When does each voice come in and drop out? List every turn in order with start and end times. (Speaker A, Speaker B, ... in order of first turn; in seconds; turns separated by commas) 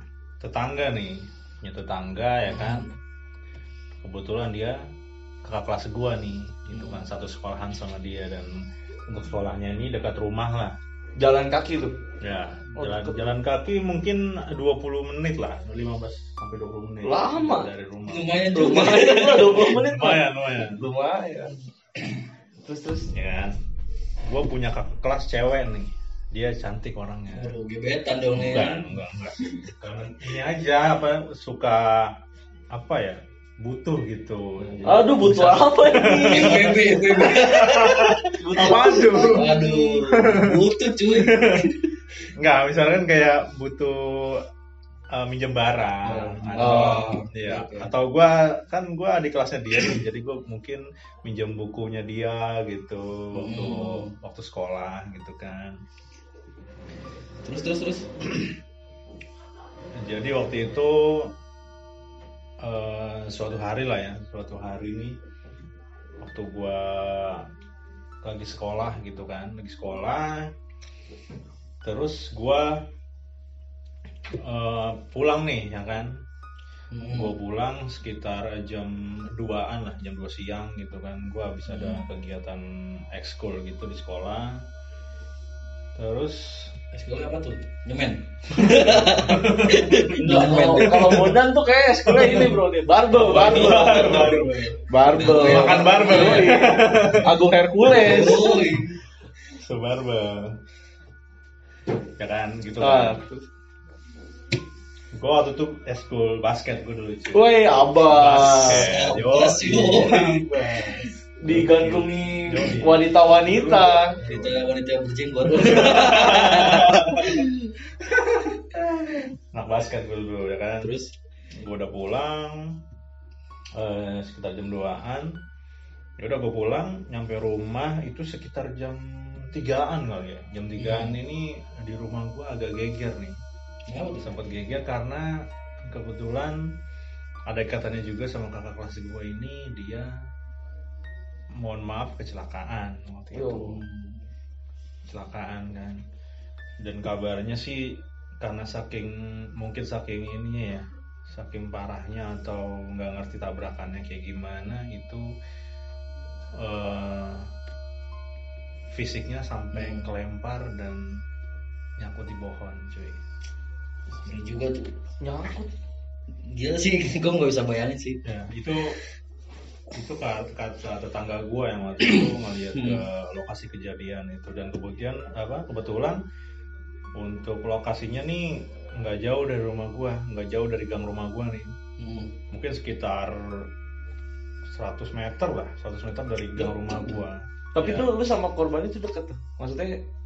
Speaker A: 0.4-2.9, Speaker B: 2.5-2.9, Speaker A: 4.0-4.8, Speaker A: 5.4-10.8, Speaker B: 6.7-7.0, Speaker C: 11.2-11.9, Speaker A: 12.2-18.5, Speaker C: 12.8-13.3, Speaker C: 17.0-17.7, Speaker B: 18.1-19.6, Speaker C: 18.5-21.5, Speaker A: 19.5-20.8, Speaker C: 22.6-23.1, Speaker A: 23.1-23.6, Speaker A: 24.2-27.5, Speaker B: 27.3-28.9, Speaker A: 28.3-32.1, Speaker B: 29.4-29.7, Speaker A: 32.7-41.8, Speaker B: 34.6-35.5, Speaker C: 34.9-37.7, Speaker B: 36.2-41.9, Speaker C: 38.3-39.7, Speaker A: 42.4-44.5, Speaker A: 45.1-55.8, Speaker C: 46.1-47.1, Speaker B: 46.4-47.9, Speaker B: 53.3-54.1, Speaker B: 57.4-58.1, Speaker A: 60.0-61.3, Speaker A: 62.6-65.2, Speaker A: 66.2-67.5, Speaker A: 68.2-70.5, Speaker A: 71.8-72.8, Speaker A: 74.3-76.2, Speaker B: 76.9-77.4, Speaker A: 77.1-84.6, Speaker B: 81.7-82.0, Speaker A: 86.0-86.7, Speaker B: 86.9-91.3, Speaker A: 88.5-91.2, Speaker C: 90.1-98.6, Speaker A: 92.2-92.5, Speaker A: 93.1-97.4, Speaker B: 93.4-96.6, Speaker B: 97.8-98.9, Speaker A: 98.2-98.8, Speaker A: 99.5-100.6, Speaker A: 102.2-103.2, Speaker C: 102.8-103.4, Speaker A: 105.1-114.7, Speaker C: 107.3-108.9, Speaker B: 108.7-111.1, Speaker C: 111.4-114.2, Speaker B: 114.2-117.5, Speaker C: 115.5-116.3, Speaker A: 115.5-117.5, Speaker A: 119.5-120.9, Speaker B: 120.8-121.1, Speaker A: 121.5-122.8, Speaker A: 123.8-125.3, Speaker A: 126.2-133.3, Speaker B: 130.8-131.2, Speaker B: 133.9-134.3, Speaker A: 134.2-136.6, Speaker A: 137.5-140.1, Speaker A: 141.6-143.8, Speaker C: 143.3-143.8, Speaker B: 143.8-144.2, Speaker A: 145.1-146.0, Speaker A: 146.8-155.3, Speaker A: 156.6-157.5, Speaker A: 158.9-161.2, Speaker B: 159.7-160.1, Speaker A: 162.0-163.2, Speaker B: 164.2-164.9, Speaker C: 165.2-165.7, Speaker B: 166.4-168.2, Speaker A: 168.2-169.0, Speaker A: 169.9-176.2, Speaker B: 172.0-173.0, Speaker A: 177.2-181.7, Speaker B: 182.0-182.3, Speaker A: 182.5-183.7, Speaker A: 184.7-188.1, Speaker B: 186.6-187.2, Speaker C: 187.8-190.0